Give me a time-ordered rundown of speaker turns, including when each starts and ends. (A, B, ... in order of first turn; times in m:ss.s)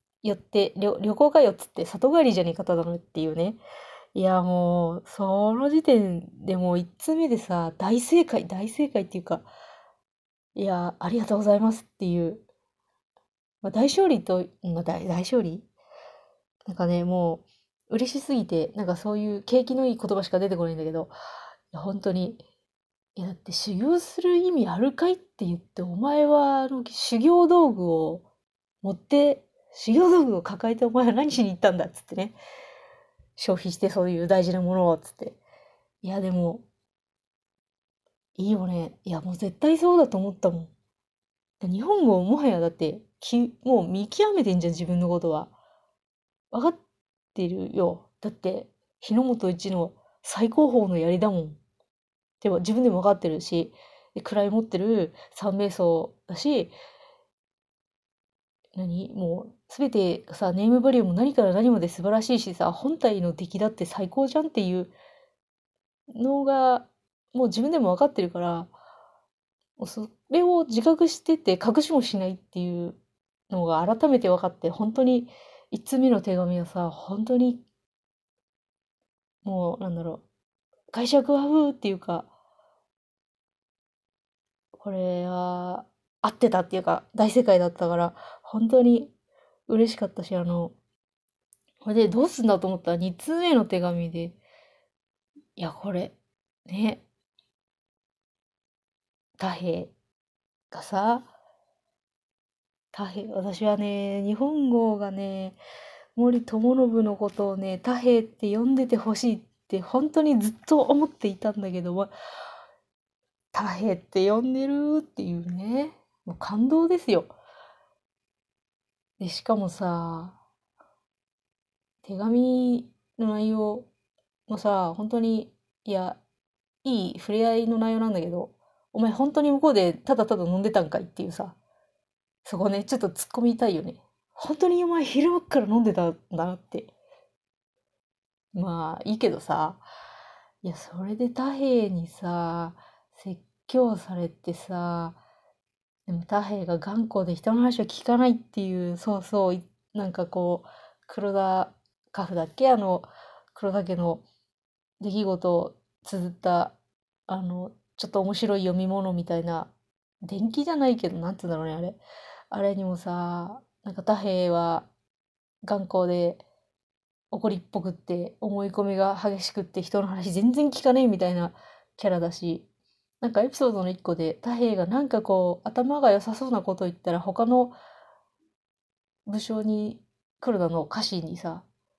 0:00.2-0:03.6 A
0:04.2-0:09.5 A
0:10.6-0:12.4 A
0:13.6-0:15.7 A
0:16.7-0:21.1 A
0:21.7-0:22.4 A
0:23.2-0:28.3 A
0:28.8-0:32.4 A
0:33.4-0:35.4 A
0:36.0-0:36.6 A
0:38.4-0:40.7 A
0:41.6-0:45.5 A
0:46.5-0:46.8 A
0:47.4-0:51.6 A
0:52.4-0:56.7 A
0:58.8-1:05.0 A
1:06.1-1:08.7 A
1:09.8-1:13.0 A
1:13.5-1:17.6 A
1:19.4-1:20.2 A
1:20.9-1:22.3 A
1:24.7-1:29.1 A
1:29.7-1:30.7 A
1:31.8-1:34.4 A
1:35.6-1:36.2 A
1:36.7-1:37.0 A
1:39.4-1:39.9 A
1:40.7-1:41.3 A
1:42.9-1:45.6 A
1:46.2-1:52.1 A
1:53.5-1:57.3 A
1:59.2-2:00.4 A
2:02.0-2:03.9 A
2:04.5-2:06.2 A
2:06.8-2:11.6 A
2:12.4-2:16.9 A
2:18.5-2:19.8 A
2:20.6-2:25.2 A
2:26.1-2:34.2 A
2:35.0-2:36.8 A
2:37.3-2:39.7 A
2:40.2-2:42.0 A
2:42.5-2:44.9 A
2:45.6-2:46.4 A
2:47.3-2:52.7 A
2:53.2-2:57.8 A
2:59.3-3:01.6 A